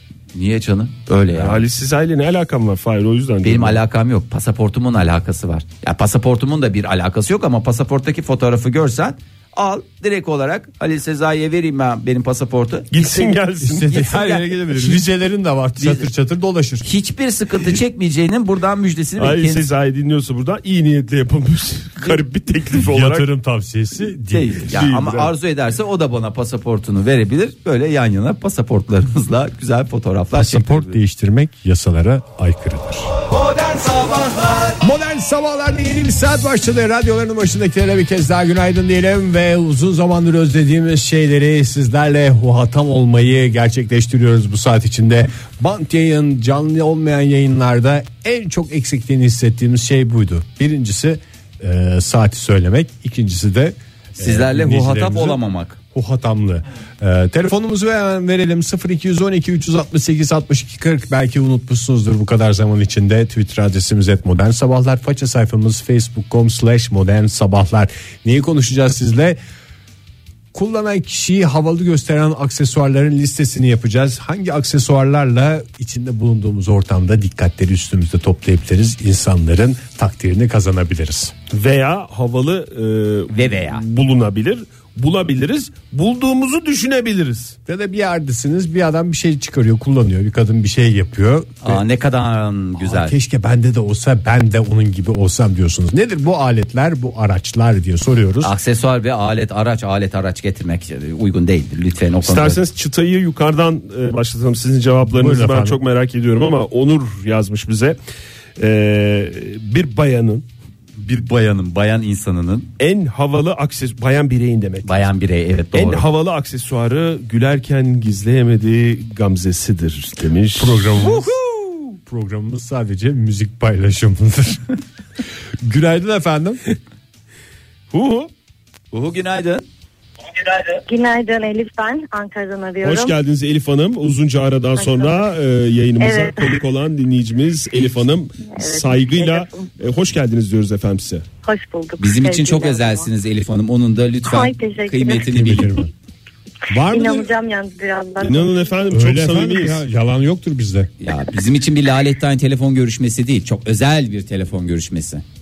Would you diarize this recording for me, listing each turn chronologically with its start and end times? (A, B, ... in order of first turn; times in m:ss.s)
0:00.3-0:01.6 A
0:01.3-0:03.8 B
0:03.4-0:15.0 A
0:12.9-0:13.9 B
0:13.6-0:16.9 C
0:15.8-0:16.0 A
0:16.8-0:19.6 A
0:19.2-0:23.3 B
0:22.8-0:24.6 C
0:24.3-0:31.0 A
0:24.7-0:25.3 B
0:30.3-0:33.1 C
0:33.8-0:34.3 A
0:34.8-0:55.4 C
0:54.2-0:55.8 A
0:55.9-1:09.4 C
1:10.5-1:21.3 C
1:21.5-1:27.6 B
1:23.3-1:23.8 A
1:27.6-1:31.8 C
1:31.6-1:33.1 A
1:32.8-1:38.5 C
1:38.4-1:42.6 A
1:42.2-1:48.0 B
1:45.0-1:45.8 C
1:48.6-1:50.4 B
1:51.0-1:52.7 A
1:52.8-1:54.9 B
1:54.8-1:56.1 A
1:55.7-2:01.3 B
2:00.6-2:04.8 C
2:05.6-2:06.6 C
2:07.9-2:08.3 B
2:08.9-2:09.6 A
2:10.8-2:13.2 D
2:12.8-2:21.2 B
2:14.8-2:15.3 D
2:16.0-2:16.6 D
2:18.4-2:19.7 D
2:21.4-2:23.1 D
2:22.0-2:25.7 A
2:24.2-2:25.7 D
2:25.3-2:25.9 C
2:26.7-2:27.3 C
2:26.8-2:28.5 D
2:28.2-2:29.8 B
2:28.9-2:30.9 C
2:31.0-2:35.2 A